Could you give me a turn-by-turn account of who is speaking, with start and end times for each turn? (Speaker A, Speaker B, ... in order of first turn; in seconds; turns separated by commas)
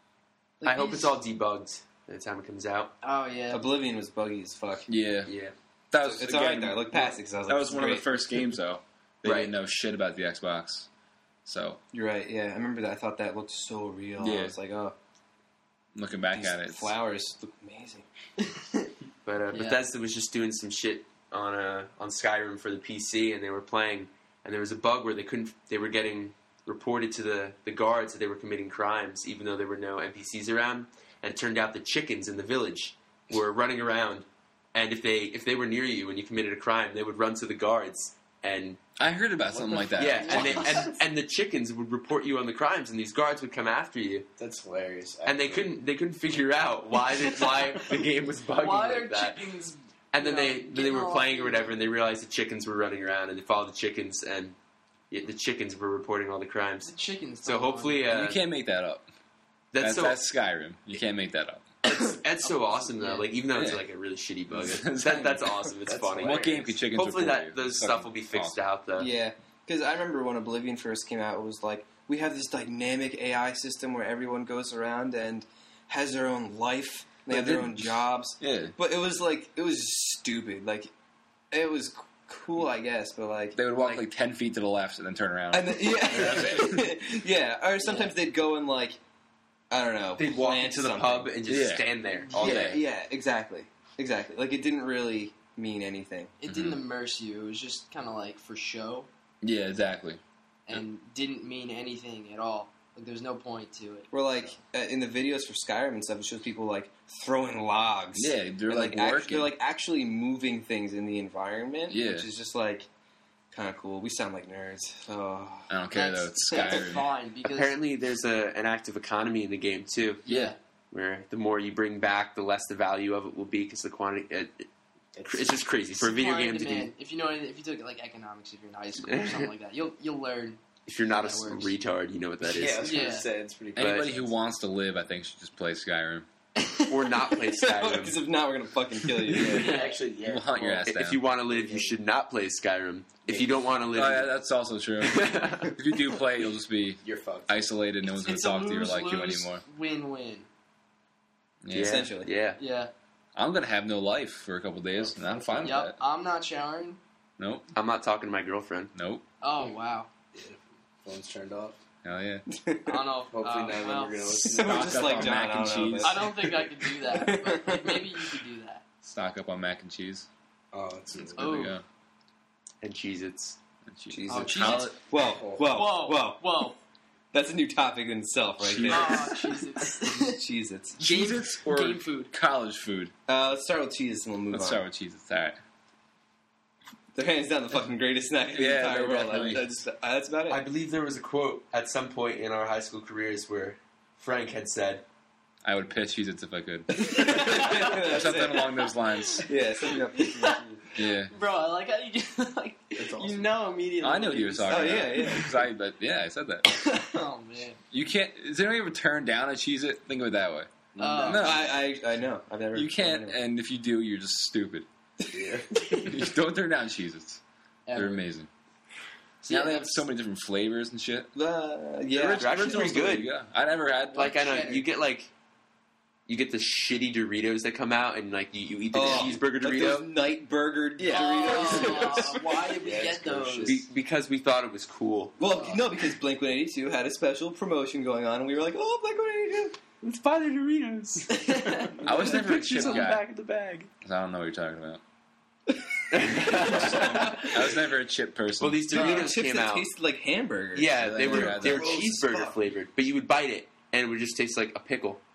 Speaker A: 0.6-1.1, Speaker B: 0.6-2.9, Speaker A: 3.0-3.7, Speaker C: 3.5-4.9, Speaker D: 4.9-5.3, Speaker D: 5.9-10.9, Speaker C: 6.0-8.1, Speaker B: 9.2-9.5, Speaker D: 11.5-11.8, Speaker C: 11.9-14.9, Speaker D: 14.2-14.5, Speaker D: 15.9-16.9, Speaker C: 16.3-18.1, Speaker A: 18.4-18.9, Speaker B: 19.2-38.8, Speaker A: 19.5-19.8, Speaker D: 39.0-40.8, Speaker E: 39.5-39.9, Speaker B: 39.9-44.3, Speaker A: 40.2-40.9, Speaker E: 44.4-45.8, Speaker B: 45.2-49.4, Speaker A: 48.6-51.8, Speaker B: 50.1-54.5, Speaker B: 55.1-56.9, Speaker A: 56.8-58.1, Speaker B: 57.4-58.4, Speaker D: 58.1-59.1, Speaker B: 59.7-60.2, Speaker D: 59.8-61.6, Speaker B: 61.9-69.1, Speaker A: 61.9-63.3, Speaker D: 63.5-63.8, Speaker D: 64.5-65.5, Speaker E: 65.8-66.7, Speaker D: 66.2-68.6, Speaker C: 69.0-80.9, Speaker D: 77.3-78.8, Speaker C: 81.5-83.6, Speaker D: 83.5-86.8, Speaker C: 85.5-89.0, Speaker A: 87.8-88.1, Speaker C: 89.7-91.3, Speaker B: 90.2-92.8, Speaker D: 91.5-92.8, Speaker C: 92.3-96.3, Speaker A: 96.4-99.1, Speaker D: 96.5-96.8, Speaker D: 99.4-100.8, Speaker A: 100.7-104.1, Speaker C: 104.1-112.9, Speaker D: 108.1-109.5, Speaker D: 111.9-112.3, Speaker C: 113.5-115.7, Speaker D: 115.7-117.1, Speaker A: 115.9-117.8, Speaker B: 117.5-120.2, Speaker D: 120.2-120.5, Speaker A: 120.2-120.6, Speaker B: 120.9-124.7, Speaker E: 125.2-125.7, Speaker B: 125.3-126.9, Speaker A: 126.0-131.7, Speaker B: 129.0-129.5, Speaker B: 130.8-133.0, Speaker E: 132.4-134.3, Speaker A: 132.8-133.3, Speaker D: 133.8-136.3, Speaker B: 133.8-134.1, Speaker A: 136.6-136.9, Speaker B: 136.9-138.2, Speaker C: 137.6-139.7, Speaker A: 139.3-140.0, Speaker E: 139.4-142.0, Speaker D: 140.2-141.2, Speaker B: 140.8-144.3, Speaker D: 143.9-149.6, Speaker B: 145.0-145.7, Speaker E: 147.0-147.5, Speaker A: 148.0-150.5, Speaker D: 151.6-152.1, Speaker B: 151.7-152.6, Speaker C: 151.8-152.3, Speaker A: 152.6-152.9, Speaker D: 153.3-156.0, Speaker E: 155.0-155.7, Speaker A: 155.6-157.0, Speaker D: 157.4-157.7, Speaker B: 157.7-158.9, Speaker D: 158.9-159.2, Speaker A: 159.4-160.1, Speaker E: 160.3-161.8, Speaker D: 162.0-162.4, Speaker C: 162.5-163.0, Speaker A: 162.8-164.4, Speaker E: 163.3-165.3, Speaker C: 164.3-168.3, Speaker D: 164.6-166.2, Speaker A: 166.0-168.8, Speaker D: 169.0-170.3, Speaker E: 170.7-171.5, Speaker D: 171.2-171.8, Speaker A: 171.4-171.8, Speaker B: 172.8-173.6, Speaker D: 173.9-175.0, Speaker C: 174.1-176.4, Speaker A: 174.3-175.0, Speaker E: 175.2-175.7, Speaker A: 175.6-176.8, Speaker C: 177.3-181.0, Speaker D: 178.6-179.3, Speaker A: 178.9-180.4, Speaker A: 181.0-182.3, Speaker D: 181.0-183.1, Speaker C: 183.3-184.8, Speaker D: 184.5-185.6, Speaker C: 187.1-190.6, Speaker D: 188.5-189.7, Speaker B: 190.5-195.0, Speaker D: 195.6-199.5, Speaker C: 197.0-198.8, Speaker A: 197.0-205.4, Speaker C: 199.4-200.8, Speaker D: 200.9-201.3, Speaker E: 203.0-203.5, Speaker D: 204.0-206.7, Speaker C: 204.7-205.5, Speaker A: 206.7-207.8, Speaker D: 207.9-211.8, Speaker E: 211.0-211.4, Speaker A: 211.0-211.7, Speaker C: 211.3-213.4, Speaker D: 212.7-214.9, Speaker E: 215.3-215.6, Speaker A: 215.8-216.1, Speaker D: 216.0-217.4, Speaker A: 217.9-218.2, Speaker D: 217.9-218.5, Speaker A: 219.4-220.1, Speaker D: 219.5-221.3, Speaker C: 221.3-222.7, Speaker D: 222.1-224.3, Speaker B: 222.2-223.3, Speaker A: 224.1-224.8, Speaker B: 224.2-225.3, Speaker B: 226.3-230.1, Speaker C: 228.9-232.4, Speaker E: 231.0-233.8, Speaker A: 231.1-233.8, Speaker B: 233.7-235.4, Speaker C: 235.4-239.8, Speaker A: 235.4-235.8, Speaker B: 240.0-243.9, Speaker A: 241.3-242.1, Speaker D: 242.0-243.2, Speaker A: 242.8-243.1, Speaker D: 244.0-245.0, Speaker B: 246.1-247.5, Speaker C: 246.4-247.5, Speaker D: 246.6-248.8, Speaker A: 247.0-247.5, Speaker B: 248.6-249.9, Speaker C: 248.9-252.6, Speaker A: 248.9-249.3, Speaker B: 250.8-255.2, Speaker D: 251.0-252.1